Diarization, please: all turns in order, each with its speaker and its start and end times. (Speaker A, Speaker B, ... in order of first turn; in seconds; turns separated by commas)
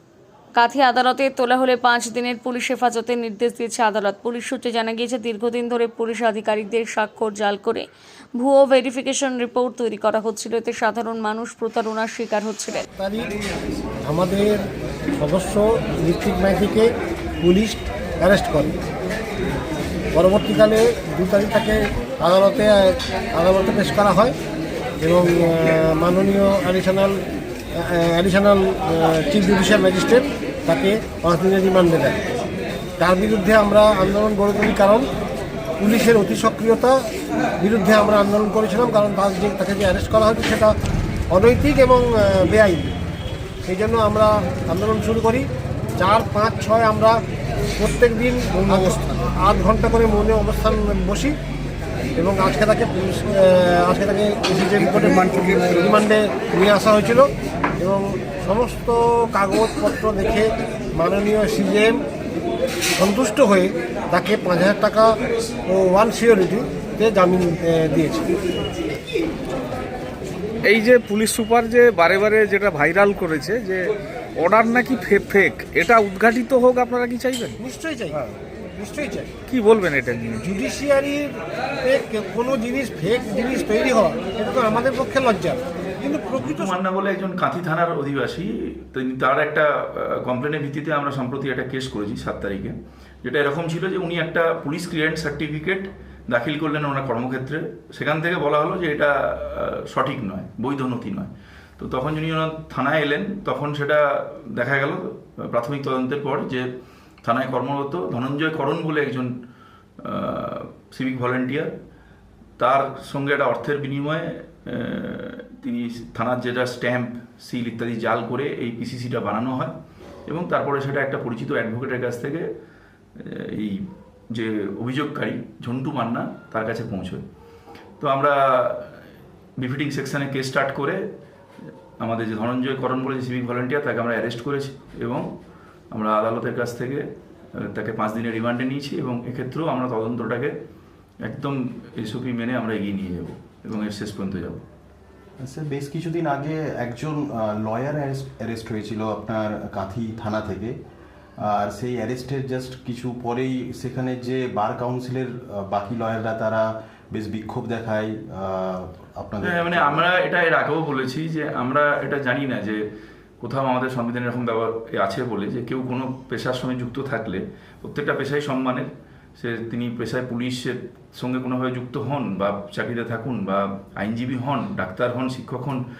Speaker A: 0.6-12.8, Speaker B: 13.0-13.3, Speaker B: 14.1-14.6, Speaker B: 15.2-16.9, Speaker B: 17.4-18.7, Speaker B: 20.1-24.4, Speaker B: 25.0-27.2, Speaker B: 27.8-32.3, Speaker B: 33.0-35.1, Speaker B: 35.8-37.1, Speaker B: 37.6-40.7, Speaker B: 41.3-43.0, Speaker B: 43.6-47.2, Speaker B: 47.8-51.4, Speaker B: 52.2-62.0, Speaker B: 63.0-65.1, Speaker B: 65.7-68.3, Speaker C: 70.6-77.6, Speaker B: 77.6-78.2, Speaker B: 78.8-79.3, Speaker C: 79.5-80.5, Speaker B: 80.4-86.7, Speaker D: 86.4-106.7, Speaker D: 107.2-109.3, Speaker D: 110.0-111.7, Speaker D: 112.6-119.7, Speaker D: 120.3-122.5, Speaker D: 123.2-127.2, Speaker D: 128.0-128.9, Speaker D: 129.6-131.0, Speaker D: 132.0-135.3, Speaker D: 135.9-137.1, Speaker D: 137.6-140.6, Speaker D: 141.2-144.6, Speaker E: 145.4-150.8, Speaker E: 151.4-160.1, Speaker D: 159.4-162.8, Speaker D: 163.4-175.8